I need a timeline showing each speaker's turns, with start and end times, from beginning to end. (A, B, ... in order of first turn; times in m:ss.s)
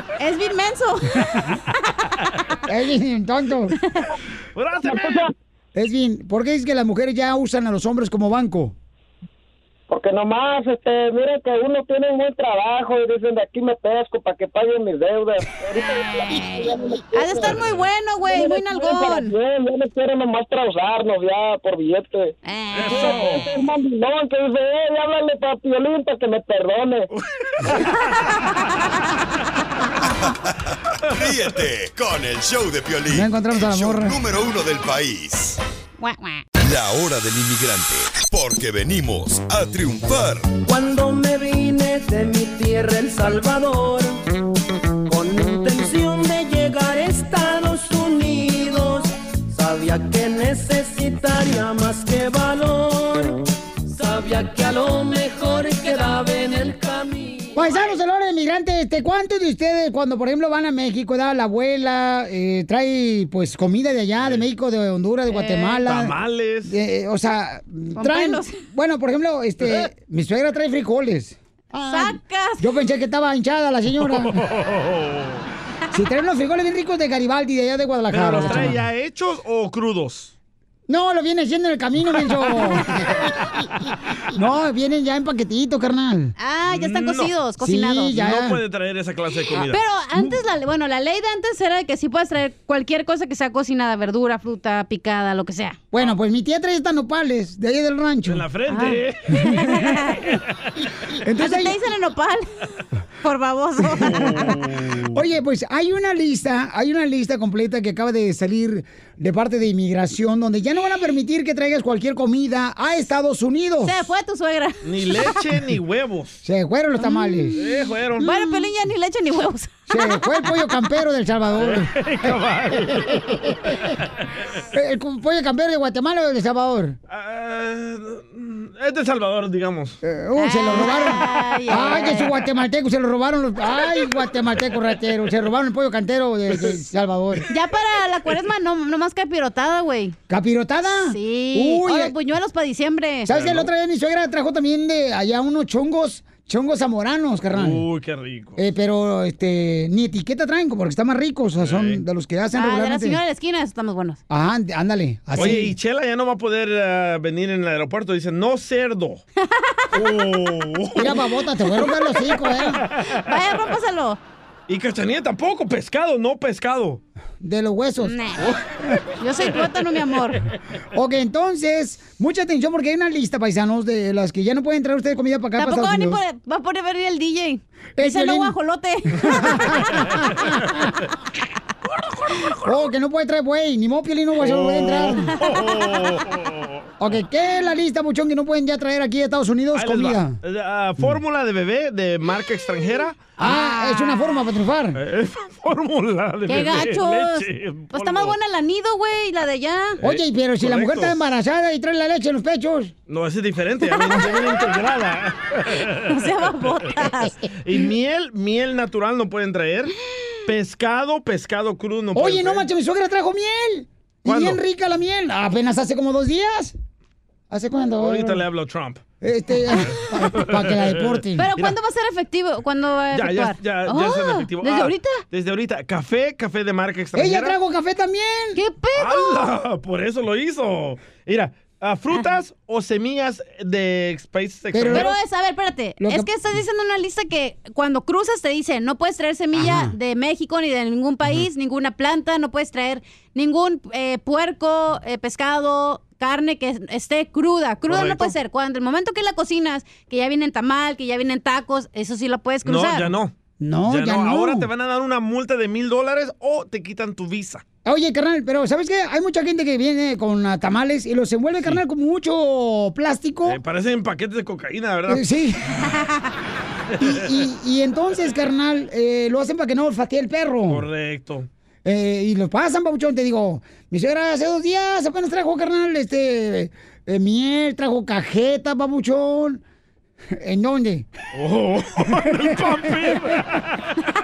0:00.2-0:01.2 A
0:02.7-0:03.7 B
0:04.5-0:05.3 C
0:04.9-0:05.2 D
0:05.7-0:08.7 B
0:09.9-0:17.6 D
0:15.7-0:19.3 A
0:17.4-0:17.8 C
0:18.2-0:27.1 D
0:22.4-0:23.4 A
0:22.7-0:23.5 C
0:27.1-0:27.9 C
0:31.1-0:35.6 E
0:33.1-0:34.2 B
0:36.0-0:36.4 A
0:36.6-0:40.5 E
0:40.6-0:44.2 F
0:45.0-0:57.6 F
0:57.6-1:06.1 B
1:04.2-1:04.4 C
1:05.3-1:05.8 A
1:05.8-1:06.7 C
1:06.6-1:14.4 B
1:08.0-1:08.6 A
1:09.6-1:09.9 C
1:11.9-1:12.7 A
1:14.0-1:15.4 C
1:15.9-1:18.8 B
1:18.1-1:20.3 C
1:20.9-1:23.2 B
1:24.3-1:26.3 B
1:26.4-1:28.2 A
1:26.6-1:27.3 C
1:27.6-1:28.6 B
1:28.1-1:29.8 C
1:29.6-1:35.8 A
1:35.9-1:38.4 B
1:38.2-1:39.8 C
1:38.7-1:40.2 A
1:41.2-1:41.8 B
1:41.4-1:42.4 A
1:43.2-1:44.5 A
1:44.0-1:44.5 B
1:44.0-1:45.2 C
1:45.1-1:54.0 B
1:53.8-1:55.4 A
1:54.8-1:56.4 C
1:56.4-1:57.6 B
1:57.0-1:57.6 A
1:57.6-1:58.3 C
1:58.2-1:59.7 A
1:58.2-1:58.6 B
1:59.9-2:02.3 B
2:01.5-2:03.2 C
2:03.1-2:03.7 B
2:04.7-2:07.0 B
2:07.1-2:10.0 C
2:10.0-2:17.4 B
2:10.4-2:12.3 A
2:16.5-2:16.8 C
2:17.5-2:20.2 A
2:20.3-2:22.1 B
2:20.9-2:23.3 A
2:23.2-2:27.9 B
2:23.3-2:23.7 C
2:27.5-2:28.6 C
2:28.6-2:33.2 B
2:31.6-2:32.0 C
2:32.5-2:34.2 A
2:34.3-2:35.7 B
2:35.3-2:39.2 C
2:39.4-2:39.7 A
2:39.9-2:41.2 C
2:41.0-2:42.8 B
2:43.2-2:44.2 A
2:44.7-2:47.0 C
2:47.4-2:48.2 B
2:48.0-2:48.5 A
2:49.2-2:50.4 A
2:50.9-2:56.2 B
2:55.6-2:59.8 A
2:58.0-2:58.6 B
2:59.2-3:00.9 B
3:02.6-3:05.3 B
3:04.4-3:06.9 C
3:07.0-3:10.4 B
3:09.7-3:13.5 C
3:13.4-3:14.4 A
3:13.4-3:15.0 B
3:14.9-3:18.4 C
3:16.5-3:20.0 A
3:20.0-3:21.2 C
3:20.0-3:22.9 B
3:23.1-3:26.9 C
3:24.0-3:24.4 A
3:26.1-3:27.4 A
3:27.6-3:29.9 C
3:30.4-3:32.6 C
3:32.1-3:36.7 B
3:34.2-3:34.6 C
3:37.5-3:38.4 B
3:38.0-3:39.0 C
3:39.2-3:41.5 B
3:40.3-3:41.8 C
3:41.4-3:45.2 A
3:43.1-3:47.6 C
3:47.1-3:48.6 B
3:48.6-3:49.5 A
3:48.9-3:55.1 C
3:54.7-3:55.2 B
3:54.9-4:13.1 A
3:56.0-3:56.3 B
3:59.5-3:59.9 B
4:07.9-4:08.3 C
4:12.6-4:13.3 C
4:13.6-4:14.7 B
4:13.9-4:17.6 C
4:17.8-4:23.6 B
4:23.4-4:25.2 C
4:25.1-4:25.8 B
4:27.0-4:30.9 B
4:30.7-4:31.5 C
4:31.8-4:39.6 B
4:40.4-4:41.1 B
4:41.3-4:43.7 C